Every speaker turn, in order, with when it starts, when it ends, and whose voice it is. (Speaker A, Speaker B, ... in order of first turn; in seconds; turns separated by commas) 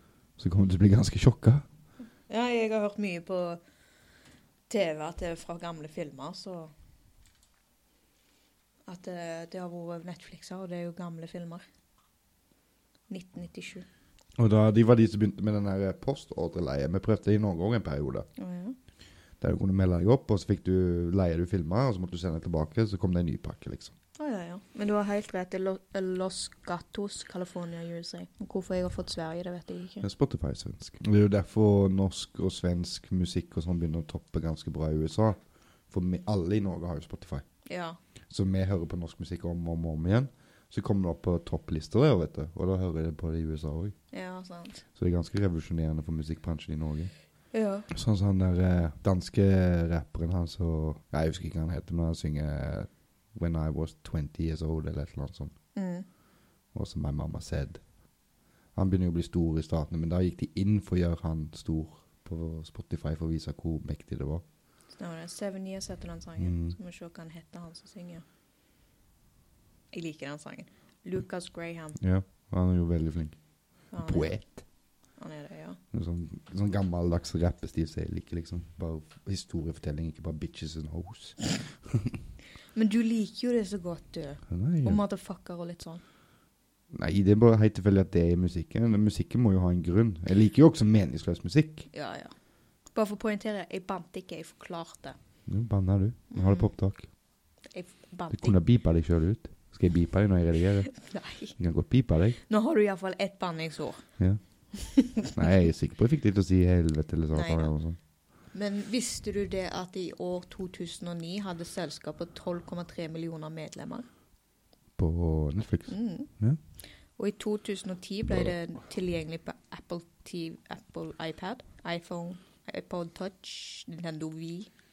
Speaker A: 0.4-1.6, Speaker B: 2.3-3.6, Speaker B: 4.7-6.7, Speaker B: 8.8-11.6, Speaker B: 13.1-13.8, Speaker A: 14.4-18.3, Speaker B: 18.4-18.8, Speaker A: 19.4-23.9, Speaker B: 24.2-30.1, Speaker A: 30.0-35.4, Speaker A: 35.9-37.4, Speaker B: 37.6-38.0, Speaker A: 38.3-43.9, Speaker B: 44.1-44.8, Speaker A: 45.0-47.1, Speaker B: 47.5-47.9, Speaker A: 47.9-55.5, Speaker B: 55.7-56.0, Speaker A: 56.7-57.8, Speaker A: 58.7-64.4, Speaker B: 65.0-68.2, Speaker A: 66.4-66.8, Speaker B: 69.9-72.0, Speaker A: 72.0-73.3, Speaker B: 73.9-74.4, Speaker A: 74.0-74.6, Speaker B: 75.2-75.8, Speaker A: 75.9-81.4, Speaker B: 82.7-86.0, Speaker A: 84.5-85.0, Speaker A: 86.9-91.9, Speaker B: 91.9-92.3, Speaker B: 92.9-95.2, Speaker A: 95.5-97.0, Speaker B: 96.3-96.7, Speaker B: 97.7-98.6, Speaker A: 98.3-100.9, Speaker B: 100.9-101.5, Speaker A: 101.5-102.4, Speaker B: 102.4-104.0, Speaker B: 104.7-105.5, Speaker A: 105.3-108.0, Speaker B: 107.3-107.7, Speaker B: 108.5-114.0, Speaker A: 115.0-116.6, Speaker B: 115.9-116.3, Speaker B: 117.2-124.7